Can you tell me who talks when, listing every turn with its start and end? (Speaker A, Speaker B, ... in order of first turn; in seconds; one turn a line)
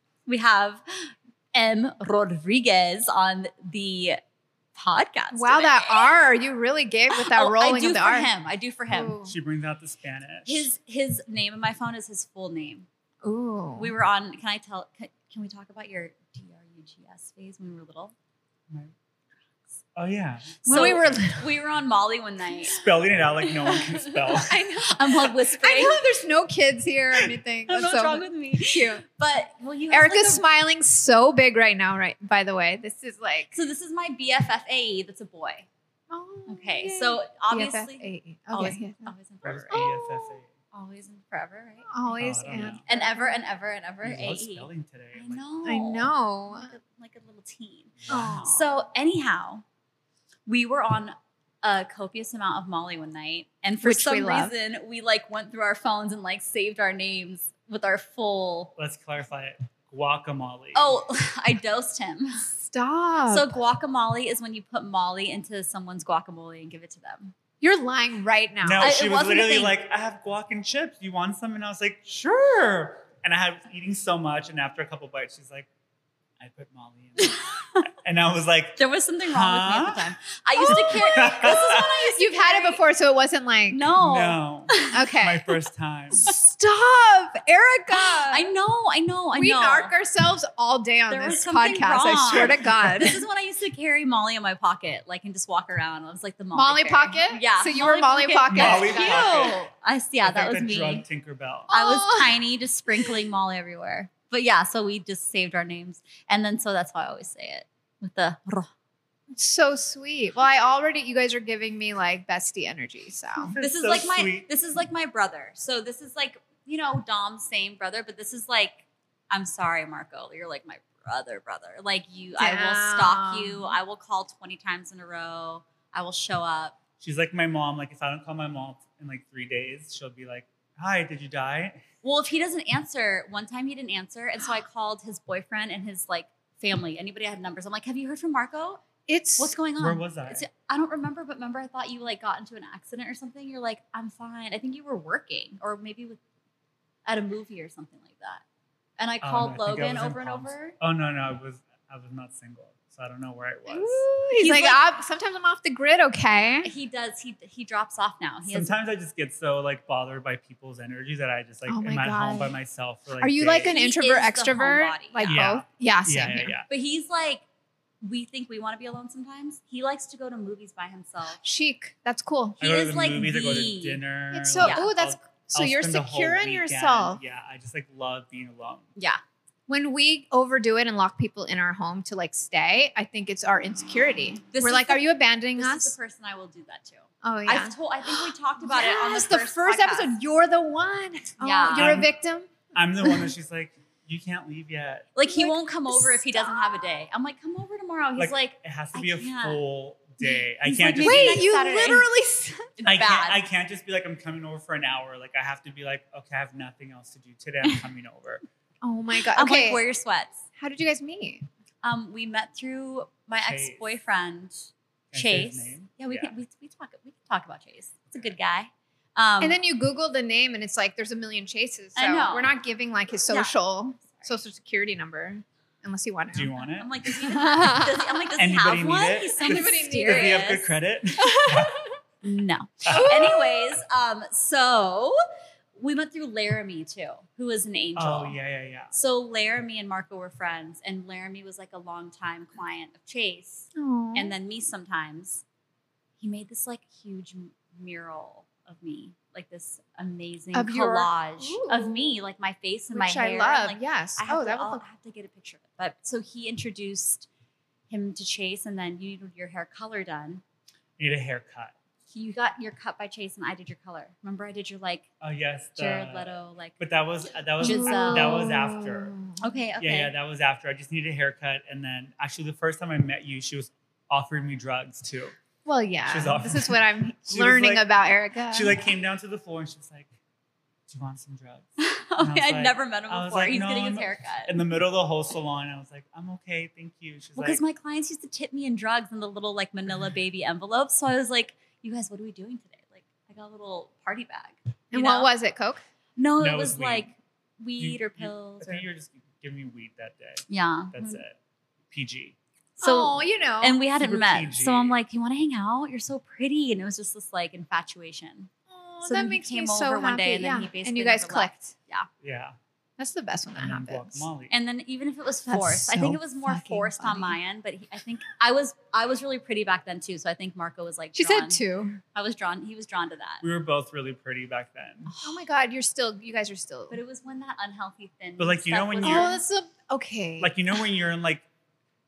Speaker A: 0.3-4.2
Speaker A: 4.7-6.2
Speaker B: 5.3-8.3
Speaker A: 7.1-9.2
Speaker B: 8.9-9.3
Speaker C: 9.2-10.7
Speaker A: 10.4-12.9
Speaker B: 13.2-13.9
Speaker A: 13.8-18.1
Speaker C: 19.9-21.4
Speaker B: 20.6-21.4
Speaker A: 20.6-22.8
Speaker C: 22.6-24.7
Speaker A: 23.6-26.0
Speaker B: 24.3-29.0
Speaker A: 27.7-30.4
Speaker B: 29.9-33.5
Speaker A: 33.5-35.7
Speaker B: 36.1-39.1
Speaker A: 36.5-39.9
Speaker C: 39.4-40.5
Speaker B: 39.7-40.4
Speaker A: 40.7-42.1
Speaker B: 41.9-43.4
Speaker C: 42.2-42.8
Speaker A: 42.7-49.6
Speaker C: 44.0-45.4
Speaker B: 45.6-46.7
Speaker C: 48.0-48.5
Speaker B: 48.1-48.6
Speaker A: 50.5-58.7
Speaker B: 53.8-54.5
Speaker C: 58.8-61.0
Speaker A: 60.7-62.5
Speaker B: 62.5-63.6
Speaker A: 63.3-67.3
Speaker B: 67.6-68.9
Speaker C: 68.6-75.7
Speaker A: 68.8-69.8
Speaker C: 76.4-81.8
Speaker A: 77.2-77.8
Speaker A: 78.8-82.8
Speaker B: 80.6-83.8
Speaker A: 83.7-85.0
Speaker C: 84.0-86.2
Speaker B: 84.9-85.5
Speaker B: 86.2-88.5
Speaker A: 87.9-89.9
Speaker B: 89.3-93.2
Speaker A: 91.1-101.0
Speaker C: 92.2-93.1
Speaker B: 96.5-99.5
Speaker C: 98.5-99.6
Speaker C: 100.2-101.7
Speaker A: 101.7-108.7
Speaker B: 101.7-102.4
Speaker B: 109.3-113.5
Speaker C: 113.4-114.5
Speaker A: 113.6-126.7
Speaker B: 122.4-123.8
Speaker C: 127.0-131.8
Speaker A: 132.0-138.8
Speaker B: 139.1-139.6
Speaker A: 139.4-146.2
Speaker C: 139.8-140.4
Speaker A: 147.1-148.4
Speaker A: 149.0-150.8
Speaker C: 149.2-154.0
Speaker B: 153.7-156.7
Speaker A: 154.3-154.8
Speaker A: 156.6-158.7
Speaker C: 158.5-163.7
Speaker B: 161.7-162.6
Speaker B: 163.2-166.5
Speaker A: 163.6-165.4
Speaker C: 165.3-166.7
Speaker A: 166.7-167.4
Speaker A: 168.0-171.4
Speaker B: 171.4-172.6
Speaker A: 172.6-174.0
Speaker C: 172.6-178.9
Speaker B: 174.3-177.2
Speaker A: 174.6-174.9
Speaker A: 178.9-179.2
Speaker B: 179.7-185.9
Speaker A: 184.5-185.0
Speaker A: 185.6-190.2
Speaker B: 187.2-192.5
Speaker A: 191.4-192.0
Speaker C: 191.7-192.1
Speaker C: 192.7-195.1
Speaker A: 195.2-199.6
Speaker B: 195.2-196.8
Speaker C: 198.2-201.5
Speaker A: 200.6-202.1
Speaker B: 200.9-202.7
Speaker A: 202.8-203.4
Speaker C: 202.8-208.4
Speaker B: 208.8-209.8
Speaker A: 209.3-210.4
Speaker B: 210.6-211.4
Speaker A: 211.8-219.6
Speaker C: 213.4-213.9
Speaker C: 215.1-216.3
Speaker B: 219.4-226.5
Speaker A: 222.0-222.5
Speaker C: 226.3-226.9
Speaker A: 226.7-230.7
Speaker B: 227.1-228.2
Speaker C: 228.4-231.8
Speaker B: 229.4-230.6
Speaker B: 231.2-232.0
Speaker A: 232.2-235.2
Speaker C: 232.8-233.3
Speaker B: 232.9-233.6
Speaker A: 235.7-238.4
Speaker C: 238.0-238.9
Speaker A: 238.9-245.4
Speaker B: 243.8-244.3
Speaker A: 246.2-257.3
Speaker B: 250.5-252.1
Speaker B: 252.9-254.8
Speaker A: 257.9-260.4
Speaker C: 261.0-261.8
Speaker A: 262.1-265.1
Speaker C: 265.2-269.1
Speaker A: 265.8-266.8
Speaker A: 267.6-268.5
Speaker B: 267.6-269.4
Speaker A: 269.4-270.1
Speaker C: 269.8-275.4
Speaker B: 275.6-278.8
Speaker C: 276.1-277.9
Speaker C: 278.5-280.1
Speaker C: 280.9-287.6
Speaker A: 281.8-284.6
Speaker A: 287.4-295.3
Speaker B: 294.9-295.8
Speaker A: 296.2-298.9
Speaker C: 296.4-297.1
Speaker C: 297.8-301.4
Speaker A: 300.5-301.2
Speaker C: 301.9-302.4
Speaker A: 302.8-308.5
Speaker B: 302.8-303.8
Speaker C: 304.0-305.0
Speaker B: 308.7-311.7
Speaker A: 309.0-312.1
Speaker C: 312.2-312.6
Speaker B: 313.0-314.3
Speaker C: 313.6-314.5
Speaker A: 314.5-321.6
Speaker B: 315.5-317.4
Speaker B: 321.2-322.0
Speaker A: 322.1-323.4
Speaker C: 323.4-325.1
Speaker A: 325.1-325.4
Speaker B: 325.2-327.0
Speaker A: 326.9-329.4
Speaker C: 328.4-329.4
Speaker B: 329.0-330.6
Speaker C: 330.4-331.5